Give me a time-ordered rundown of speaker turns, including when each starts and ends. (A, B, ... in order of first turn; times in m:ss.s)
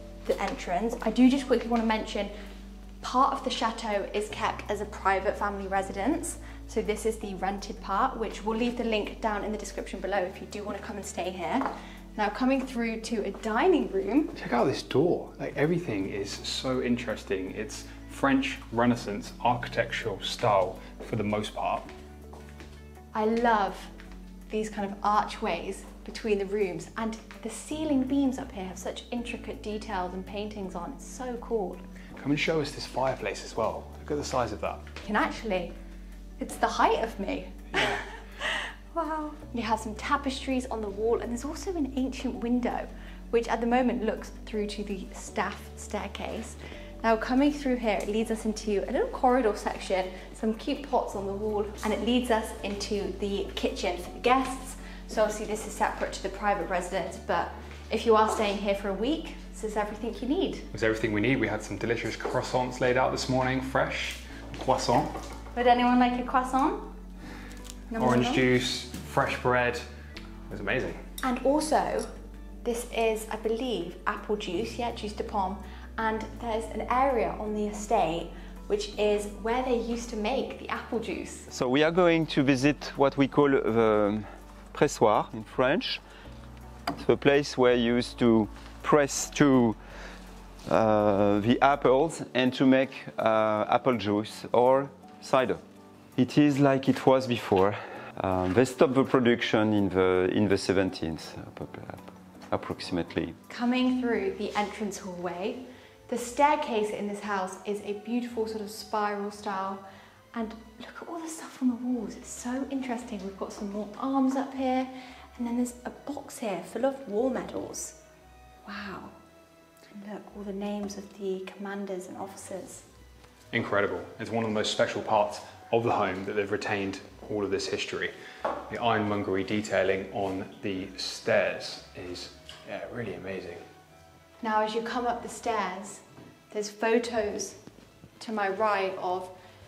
0:00.2-0:02.3 A
0:03.0-0:14.4 A
0:14.4-0:21.9 B
0:23.1-0:23.9 A
0:24.5-0:31.8 A
0:32.2-0:34.8 B
0:35.0-0:35.7 A
0:36.4-1:00.7 A
0:37.8-0:38.0 B
1:00.7-1:05.1 B
1:05.6-1:06.9 A
1:07.9-1:08.4 A
1:08.0-1:09.8 B
1:10.5-1:11.0 B
1:11.2-1:12.1 A
1:12.6-1:21.5 A
1:21.5-1:26.0 C
1:27.0-1:29.8 C
1:30.7-1:35.6 C
1:36.2-1:43.4 C
1:43.5-1:49.8 A
1:50.3-1:58.0 A
1:58.6-1:59.1 A
1:59.9-2:02.9 A
2:03.5-2:08.1 B
2:08.7-2:13.6 B
2:14.4-2:17.6 A
2:18.2-2:19.3 A